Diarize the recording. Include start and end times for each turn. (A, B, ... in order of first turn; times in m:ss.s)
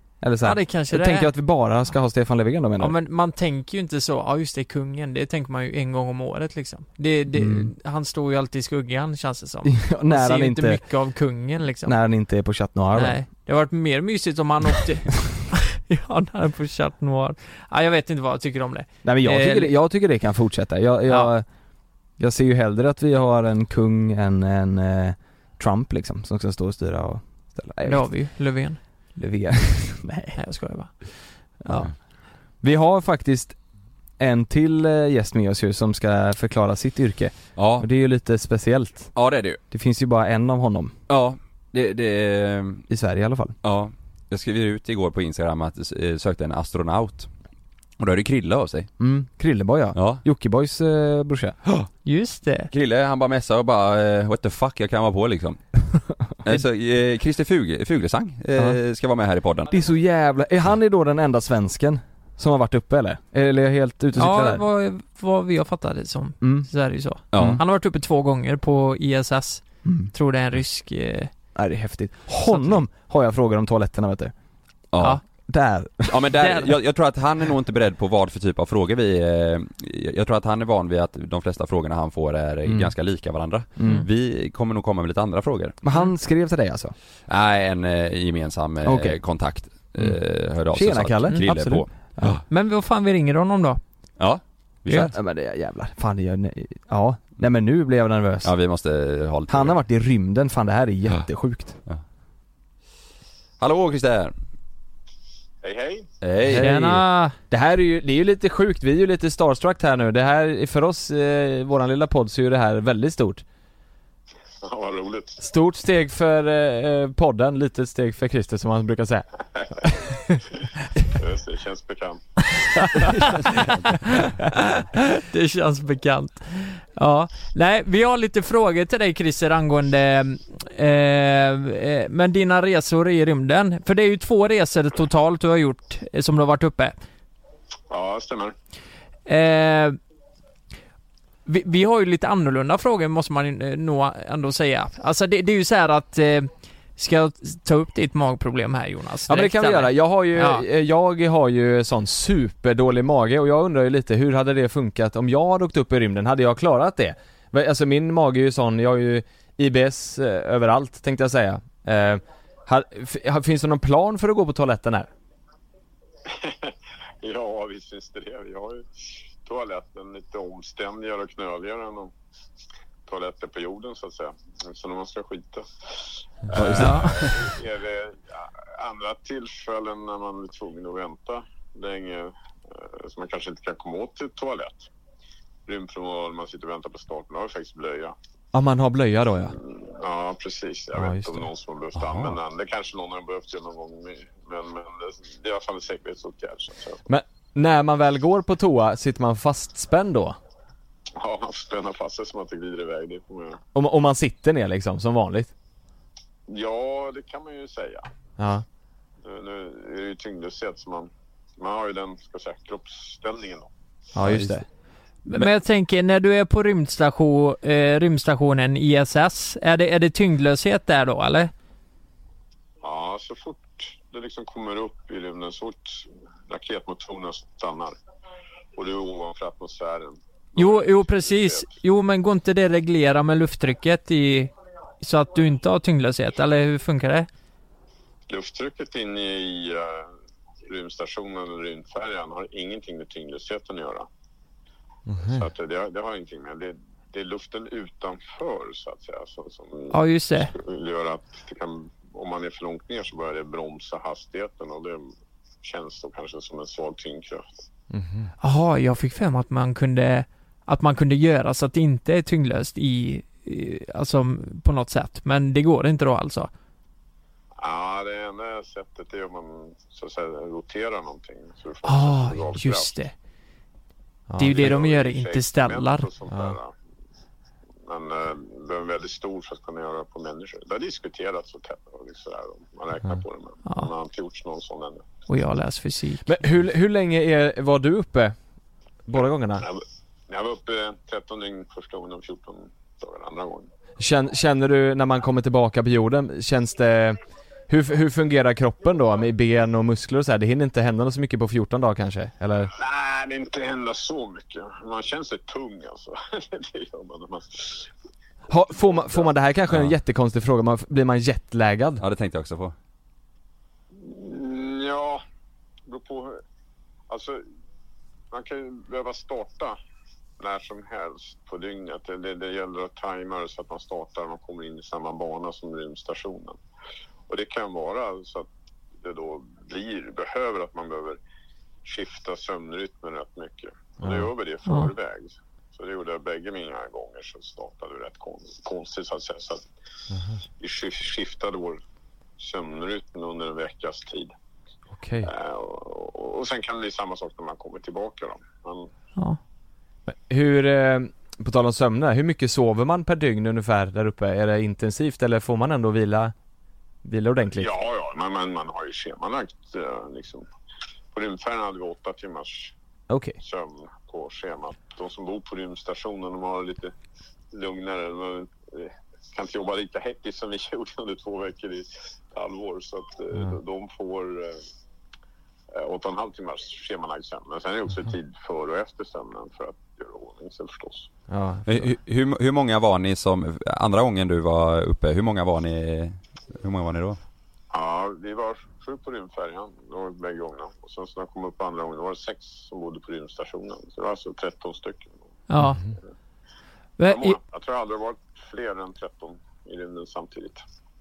0:00.2-0:03.0 A
0:00.4-0:01.3 B
0:02.8-0:12.0 B
0:07.3-0:07.7 A
0:09.6-0:10.8 A
0:11.8-0:13.2 A
0:12.9-0:19.7 B
0:19.0-0:21.4 A
0:22.2-0:28.1 A
0:27.8-0:28.8 B
0:29.2-0:30.4 A
0:30.4-0:31.9 B
0:32.6-0:33.6 A
0:34.2-0:39.1 A
0:37.6-0:37.8 C
0:39.1-0:39.6 C
0:39.7-0:40.9 A
0:41.1-0:42.8 C
0:42.9-0:43.5 A
0:43.6-0:47.3 C
0:48.0-0:48.9 C
0:49.0-0:51.6 A
0:49.9-0:50.2 C
0:52.0-0:52.7 B
0:52.7-0:55.7 C
0:56.4-0:59.7 C
0:59.7-1:04.6 A
1:04.2-1:11.3 B
1:06.4-1:06.7 A
1:07.3-1:07.6 C
1:07.3-1:07.6 A
1:09.8-1:10.1 A
1:11.6-1:14.3 A
1:12.4-1:12.8 B
1:14.9-1:15.2 C
1:15.5-1:16.3 A
1:16.1-1:25.8 C
1:16.4-1:16.7 B
1:22.6-1:22.9 A
1:23.8-1:24.0 A
1:25.8-1:26.9 A
1:27.3-1:32.4 C
1:28.8-1:29.2 A
1:30.0-1:32.4 A
1:32.5-1:33.8 B
1:34.2-1:35.1 C
1:34.9-1:38.5 A
1:38.4-1:39.8 C
1:39.5-1:41.8 A
1:43.6-1:44.3 C
1:45.6-1:46.1 D
1:46.2-1:46.7 C
1:46.4-1:53.4 A
1:46.5-1:47.3 B
1:54.6-1:55.4 D
1:55.4-1:59.3 A
1:59.8-2:00.4 A
2:01.1-2:02.3 D
2:03.0-2:03.5 A
2:04.2-2:16.9 B
2:17.9-2:18.5 D
2:19.3-2:20.0 B
2:21.4-2:30.6 B
2:29.3-2:45.1 A
2:46.2-2:52.1 D
2:53.0-3:04.9 D
2:56.5-2:57.3 C
2:56.6-2:57.1 A
2:56.8-2:57.1 B
3:05.7-3:08.2 D
3:08.5-3:09.6 A
3:09.5-3:17.0 D
3:10.9-3:11.5 A
3:12.0-3:12.4 C
3:17.1-3:20.4 A
3:21.2-3:23.6 D
3:23.7-3:25.5 A
3:26.5-3:28.1 D
3:28.4-3:28.6 A
3:29.2-3:33.7 D
3:34.1-3:34.6 A
3:35.2-3:41.5 B
3:42.8-3:47.9 D
3:48.8-3:51.8 D
3:50.6-3:57.3 B
3:58.3-4:00.1 D
4:00.6-4:04.1 D
4:05.1-4:05.4 A
4:05.2-4:17.6 D
4:09.9-4:10.5 B
4:17.9-4:18.3 A
4:18.4-4:26.5 B
4:27.6-4:32.9 D
4:31.8-4:33.1 B
4:34.3-4:34.7 A
4:34.4-4:36.1 B
4:34.4-4:36.7 D
4:36.3-4:36.6 A
4:37.8-4:45.1 D
4:43.6-4:43.9 B
4:45.3-4:46.3 B
4:46.2-4:48.4 A
4:49.1-4:49.6 A
4:49.6-4:53.7 D
4:54.0-5:02.7 A
5:02.7-5:07.9 D
5:08.5-5:12.0 A
5:08.7-5:09.3 D
5:12.0-5:12.7 C
5:13.9-5:15.2 D
5:15.8-5:16.4 D
5:17.1-5:17.4 D
5:18.3-5:19.8 D
5:20.4-5:26.6 D
5:27.3-5:31.2 D
5:31.8-5:39.6 D
5:34.0-5:34.3 A
5:34.6-5:34.9 B
5:40.1-5:40.4 A
5:40.6-5:41.8 D
5:42.4-5:44.3 D
5:44.9-5:45.3 A
5:45.2-5:48.9 D
5:50.1-5:56.3 A
5:57.0-5:57.7 A
5:57.5-6:00.4 D
6:01.1-6:02.7 D
6:03.1-6:03.4 A
6:03.4-6:06.9 D
6:07.5-6:14.6 D
6:15.7-6:21.1 D
6:21.3-6:21.9 A
6:21.6-6:27.2 C
6:27.7-6:35.3 D
6:35.5-6:35.8 B
6:35.6-6:35.8 A
6:37.0-6:37.4 B
6:37.0-6:40.6 D